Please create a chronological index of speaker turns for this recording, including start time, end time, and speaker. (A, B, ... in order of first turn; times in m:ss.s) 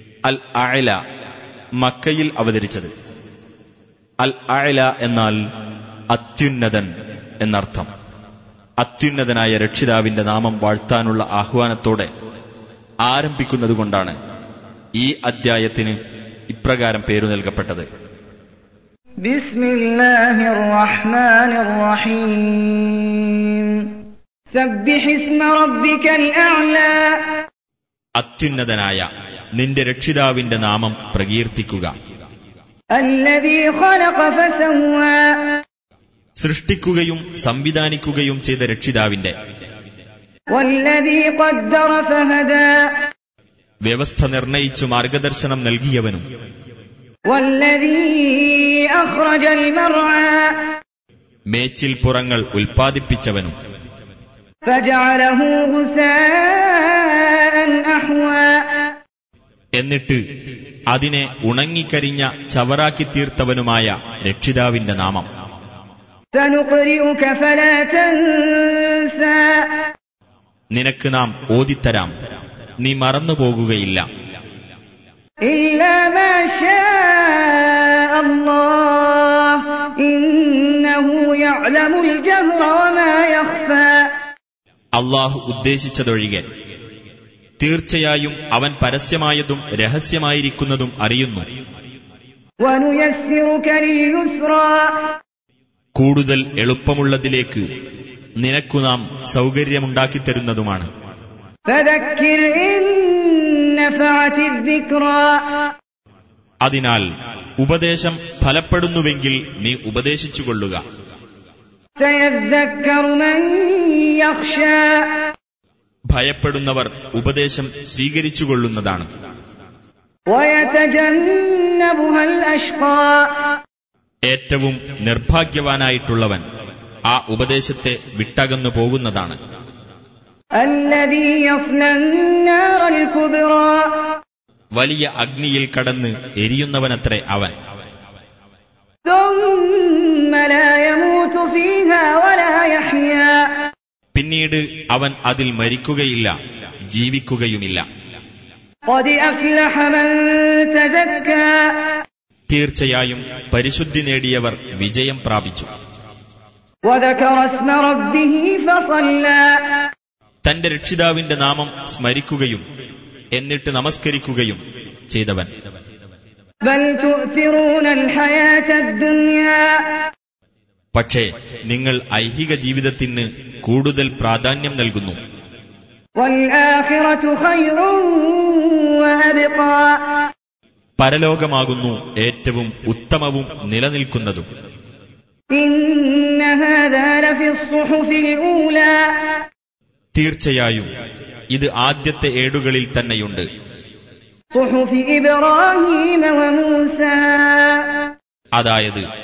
0:00.2-0:01.0 A
0:01.8-0:02.9 A
0:04.2-0:05.4 A
0:06.1-0:06.9 A
0:07.4-0:07.9 A
0:08.8-0:12.1 A
0:13.0-0:14.2 A
0:15.0-0:16.0 A
0:16.5-0:17.8 A
0:19.2-0:24.0 B
0:24.5-0:27.4 B
0:28.2-0:29.0 A
0:29.6-0:31.9 A
0:32.9-0:35.6 B
0:36.4-0:39.3 A
0:40.5-0:42.9 B
0:43.8-0:46.2 A
0:47.3-0:50.7 B
0:51.5-0:53.5 A
0:54.6-0:58.9 B
0:59.8-1:00.2 A
1:00.9-1:05.3 A
1:06.3-1:09.9 B
1:10.7-1:12.1 A
1:12.8-1:14.0 A
1:15.4-1:24.1 B
1:25.0-1:26.4 A
1:27.6-1:31.4 A
1:32.6-1:35.2 B
1:35.9-1:37.6 A
1:38.4-1:40.9 A
1:41.7-1:45.7 B
1:46.6-1:47.1 A
1:47.6-1:50.8 A
1:52.0-1:55.3 B
1:56.1-1:59.1 A
2:00.3-2:03.5 B
2:04.3-2:06.4 A
2:07.1-2:09.4 A
2:10.6-2:14.2 B
2:14.7-2:17.5 A
2:19.0-2:23.7 B
2:24.1-2:26.3 A
2:26.9-2:27.8 A
2:28.9-2:32.0 B
2:32.5-2:35.7 A
2:36.8-2:39.9 B
2:40.4-2:42.6 A
2:43.3-2:44.6 A
2:45.1-2:45.5 A
2:46.6-2:50.0 B
2:50.9-2:55.2 A
2:56.2-3:00.3 B
3:01.0-3:04.5 A
3:05.5-3:09.4 B
3:10.1-3:10.9 A
3:11.5-3:13.4 A
3:14.5-3:18.1 B
3:18.6-3:19.0 A